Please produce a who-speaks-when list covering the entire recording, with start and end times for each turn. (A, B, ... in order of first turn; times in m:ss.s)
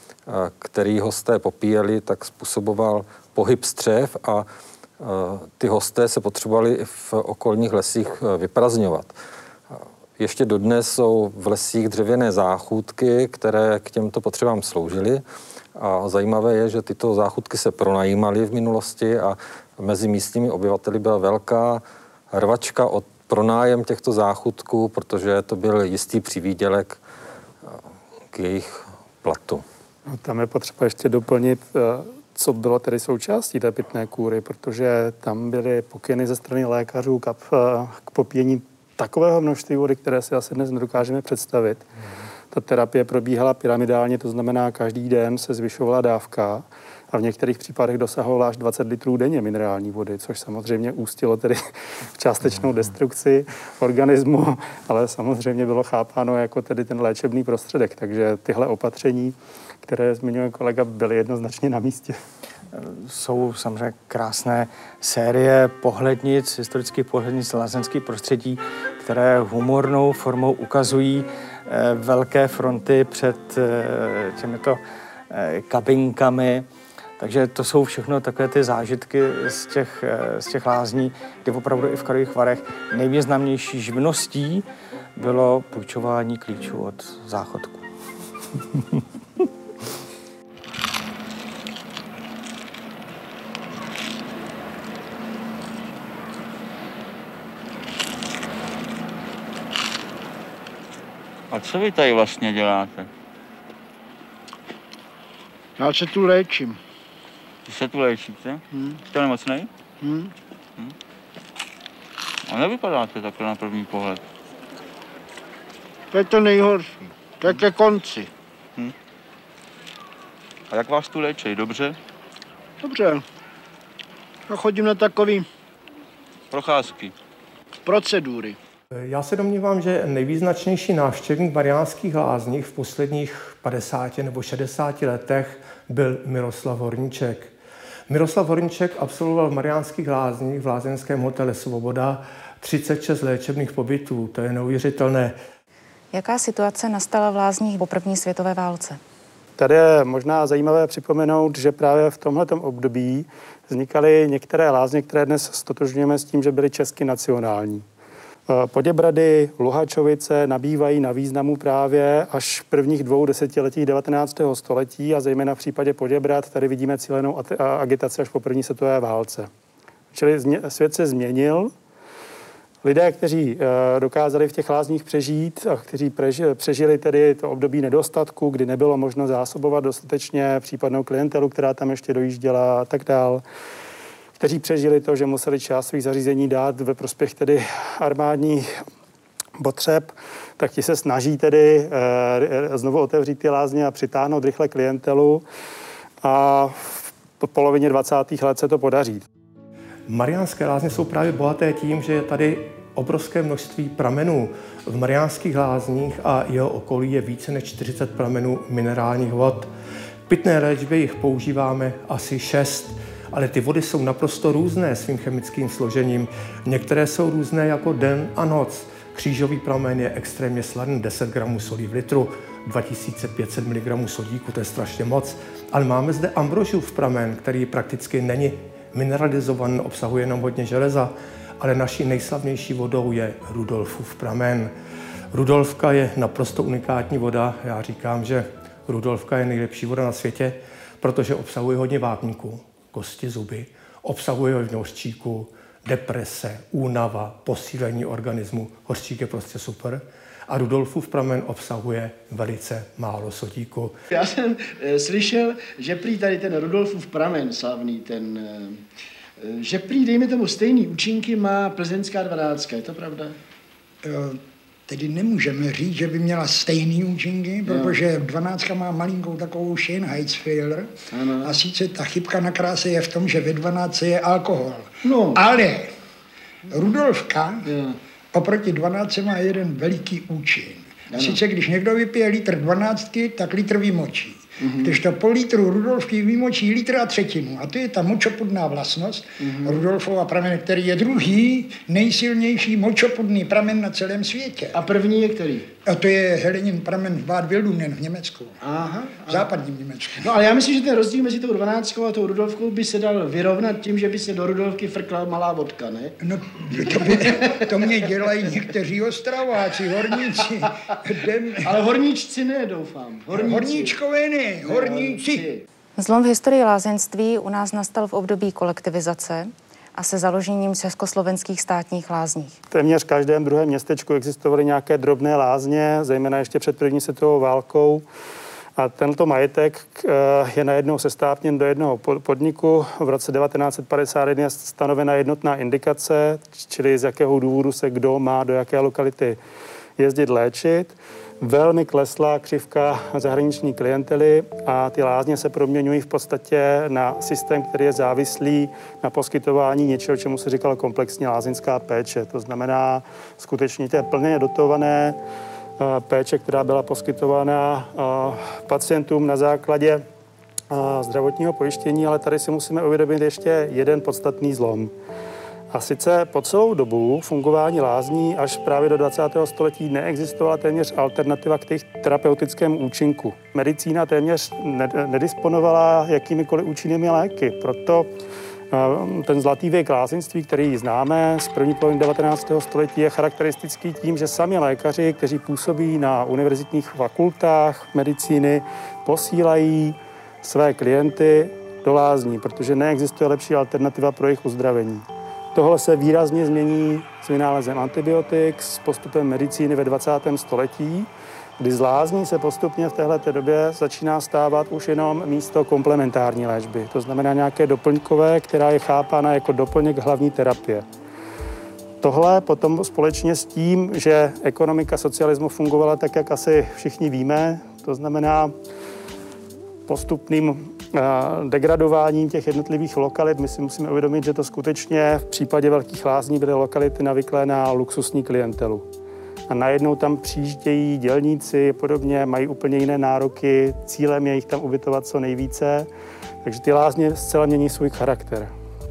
0:00.3-0:04.5 A
0:05.0-0:09.1 A
0:09.7-0:15.2 A
0:15.8-0:27.0 A
0:28.3-0:29.6 A
0:30.1-0:41.8 B
0:42.5-0:51.6 B
0:52.1-1:02.2 B
1:02.7-1:16.7 C
1:17.2-1:24.6 C
1:25.2-1:27.8 C
1:41.5-1:43.1 D
1:45.8-1:46.8 E
1:47.6-1:49.7 D
1:48.7-1:49.0 E
1:50.0-1:50.3 E
1:52.5-1:54.2 D
1:56.1-1:58.3 E
2:00.7-2:02.0 D
2:02.8-2:03.2 E
2:04.5-2:05.5 E
2:06.5-2:07.1 D
2:07.8-2:08.6 E
2:09.0-2:17.5 F
2:18.1-2:25.4 F
2:26.1-2:29.0 G
2:29.6-2:37.8 B
2:38.5-2:49.5 B
2:50.1-2:51.7 B
2:52.8-3:03.4 B
3:04.4-3:08.8 B
3:09.6-3:15.4 B
3:16.2-3:19.2 B
3:20.1-3:29.7 F
3:30.3-3:54.7 F
3:55.3-4:14.0 F
4:14.1-4:18.8 E
4:19.4-4:23.4 E
4:24.0-4:35.9 H
4:27.6-4:28.0 E
4:31.1-4:31.6 E
4:35.0-4:35.4 E
4:36.7-4:37.7 H
4:37.6-4:38.0 E
4:38.3-4:54.8 H
4:41.1-4:41.4 E
4:44.6-4:45.0 E
4:49.4-4:49.8 E
4:54.7-4:55.7 E
4:55.9-4:58.6 H
4:58.6-4:59.5 E
4:59.3-5:00.3 H
5:00.2-5:06.2 E
5:06.2-5:11.8 H
5:07.0-5:07.6 E
5:11.6-5:14.0 E
5:13.3-5:15.5 H
5:14.6-5:15.6 E
5:16.0-5:22.6 G
5:22.7-5:28.0 B
5:28.8-5:39.4 B
5:40.0-5:55.2 B
5:55.8-6:00.0 B
6:00.7-6:04.9 B
6:05.7-6:18.1 B
6:18.7-6:50.8 B
6:52.0-6:58.5 B
6:59.9-7:08.8 B
7:09.5-7:15.9 B
7:16.4-7:18.5 B